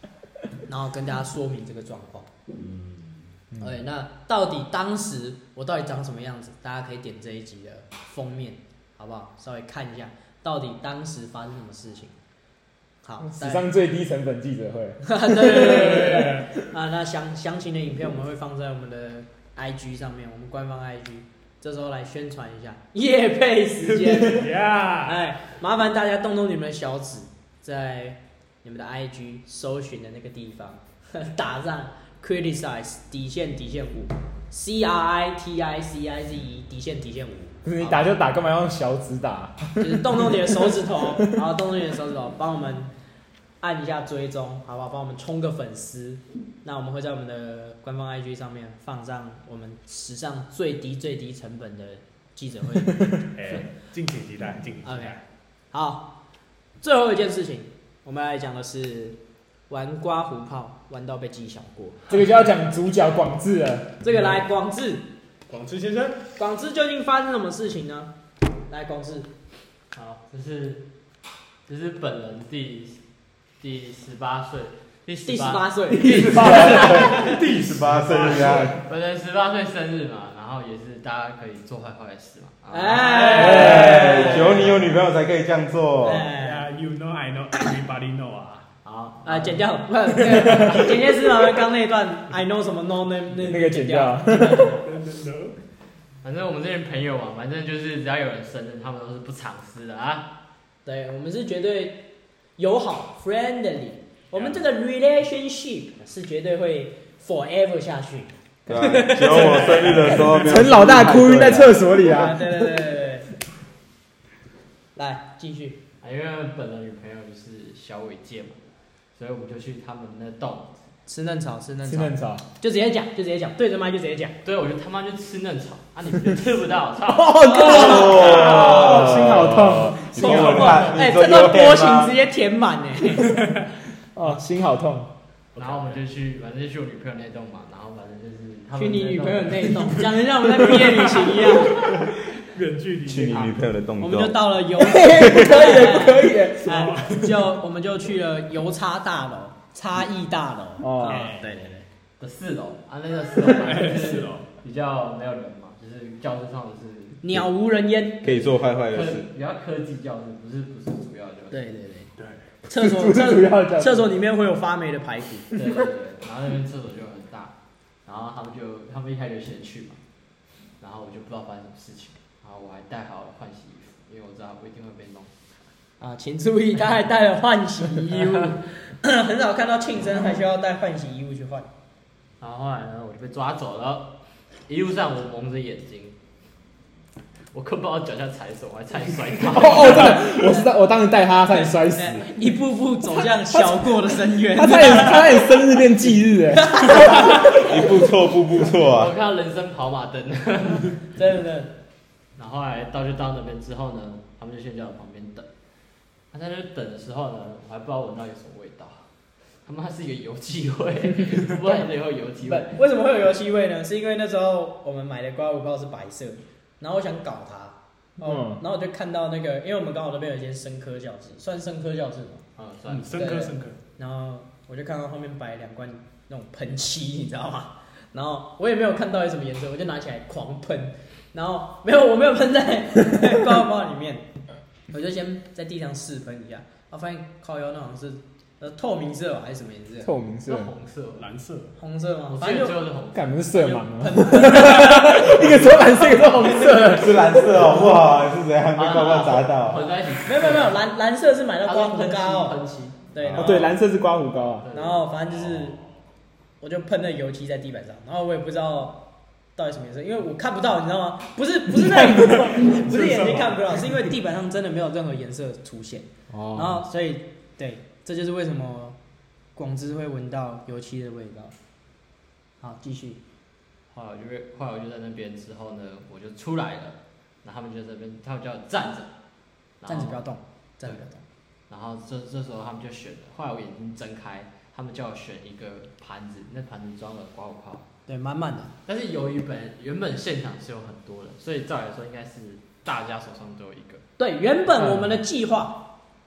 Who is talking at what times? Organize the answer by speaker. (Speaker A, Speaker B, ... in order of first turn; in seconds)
Speaker A: 0.7-2.3, 3.6-12.1, 13.0-13.7, 15.0-24.5, 25.0-38.1, 39.8-42.9, 43.6-53.6, 54.8-56.1, 56.8-62.1, 64.0-65.0, 66.3-68.1, 68.7-69.3, 75.2-77.0, 82.7-84.8, 86.0-86.7, 89.2-94.8, 100.8-110.2, 111.9-113.3, 114.9-115.8, 121.1-124.4, 127.4-129.1, 130.1-133.4, 138.8-141.9, 143.3-151.8, 157.2-158.3, 161.5-162.1, 162.7-165.5, 176.0-181.7, 190.1-190.7, 191.5-195.7, 196.5-197.7, 201.2-201.7, 212.4-222.4, 223.1-234.2, 234.9-240.1, 241.8-242.8, 243.5-246.5, 250.2-252.6, 253.1-253.7, 254.7-255.8, 256.6-259.0, 259.6-269.0, 269.5-271.5, 272.6-273.2, 279.9-281.2, 288.1-288.7, 294.2-295.9
Speaker B: 2.5-3.3, 15.7-16.4, 23.9-25.2, 53.3-55.2, 65.5-66.3, 76.5-78.8, 83.0-84.1, 86.3-88.7, 90.2-90.8, 94.8-95.5, 109.2-110.7, 133.2-133.7, 135.5-136.0, 141.9-143.5, 146.5-147.5, 151.1-151.5, 153.5-154.4, 162.2-162.4, 222.9-223.8, 241.2-241.7, 255.4-255.7, 261.9-264.1
Speaker C: 13.2-16.4, 37.6-41.3, 62.1-64.0, 76.1-77.0, 93.4-94.7, 110.3-112.8, 121.8-122.4, 127.1-130.9, 134.1-135.1, 144.8-146.8, 150.8-151.3, 162.7-164.1, 189.5-192.3, 194.5-197.4, 218.2-218.6, 240.0-240.7, 243.1-247.7, 253.3-254.7, 294.8-295.1
Speaker D: 69.9-70.8, 71.7-73.0, 73.6-77.3, 78.8-84.9, 88.8-89.7, 96.2-100.3, 104.3-104.6, 116.0-118.6, 119.1-120.8, 124.4-128.8, 135.6-140.0, 152.2-157.2, 158.3-161.6, 165.5-170.0, 170.8-175.3, 182.4-186.2, 187.5-190.3, 198.7-201.0, 202.3-205.5, 206.3-209.0, 209.6-212.8, 222.6-223.2, 240.5-241.3, 242.3-243.8, 248.7-250.8, 251.6-253.5, 254.6-255.1, 273.9-279.1, 279.8-280.2, 281.7-287.9, 288.9-294.0
Speaker E: 76.0-78.8, 83.3-86.3, 108.7-111.8, 127.6-132.2, 143.1-144.4, 158.2-159.3, 197.5-199.1, 246.8-249.9